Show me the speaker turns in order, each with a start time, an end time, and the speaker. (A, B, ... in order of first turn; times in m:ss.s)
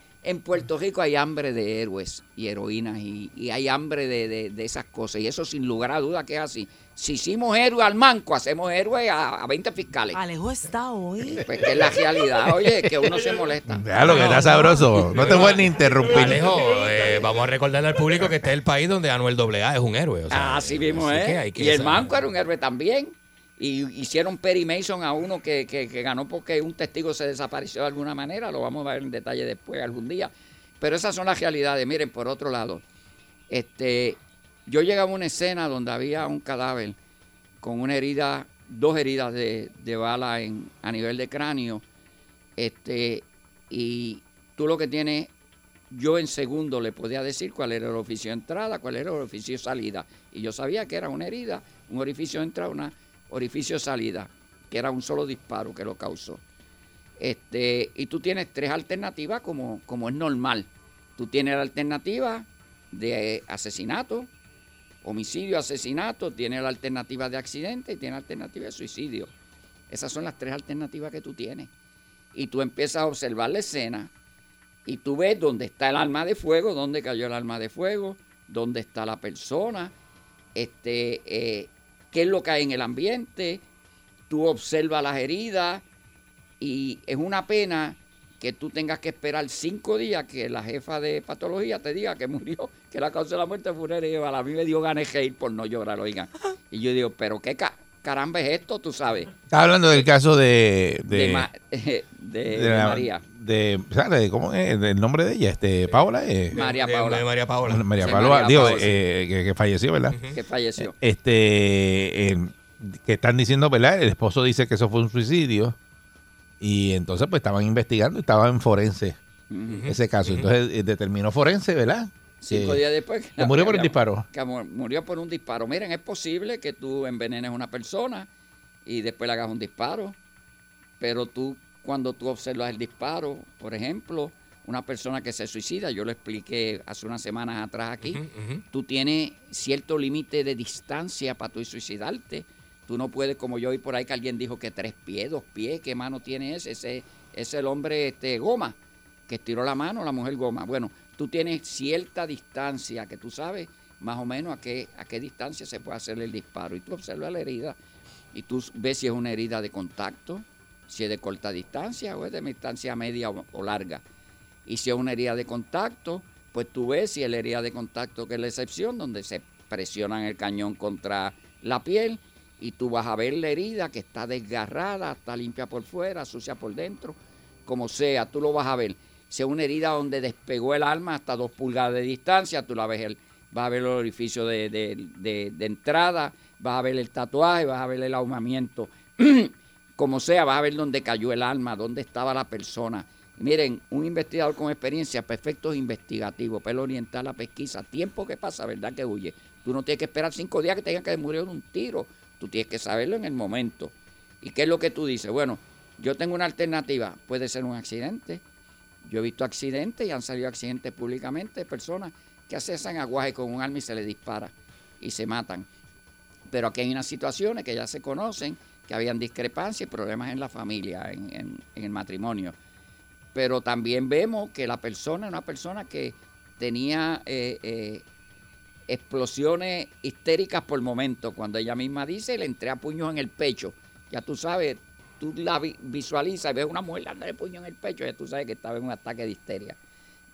0:00.2-0:10.2 A
0:10.1-0:12.0 B
0:11.4-0:13.9 A
0:13.7-0:16.5 C
0:14.0-0:15.1 B
0:14.0-0:14.5 D
0:15.1-0:22.2 D
0:20.3-0:32.8 A
0:33.5-0:37.0 A
0:37.6-0:41.8 A
0:42.6-0:45.3 A
0:45.9-0:56.4 A
0:57.2-1:04.3 A
1:05.0-1:09.3 A
1:09.9-1:11.7 A
1:12.3-1:14.1 A
1:14.8-1:19.9 A
1:20.5-1:23.6 A
1:24.3-1:25.8 A
1:26.6-1:39.3 A
1:39.5-1:41.5 C
1:41.1-1:43.2 A
1:42.5-1:46.6 C
1:46.5-1:47.2 A
1:46.5-1:48.9 D
1:47.7-1:50.2 C
1:48.0-1:48.9 A
1:50.1-1:50.4 D
1:50.3-1:50.9 A
1:50.8-1:55.8 C
1:56.6-1:59.2 C
1:59.5-1:59.8 A
1:59.7-2:00.5 D
1:59.8-2:02.8 C
2:02.4-2:08.3 A
2:03.4-2:04.2 C
2:08.8-2:10.2 A
2:11.0-2:28.8 A
2:18.0-2:18.6 D
2:29.3-2:37.8 A
2:38.3-2:44.0 A
2:44.6-3:28.4 A
3:29.0-3:35.7 A
3:36.5-3:42.5 A
3:43.3-3:48.0 A
3:48.9-3:59.8 A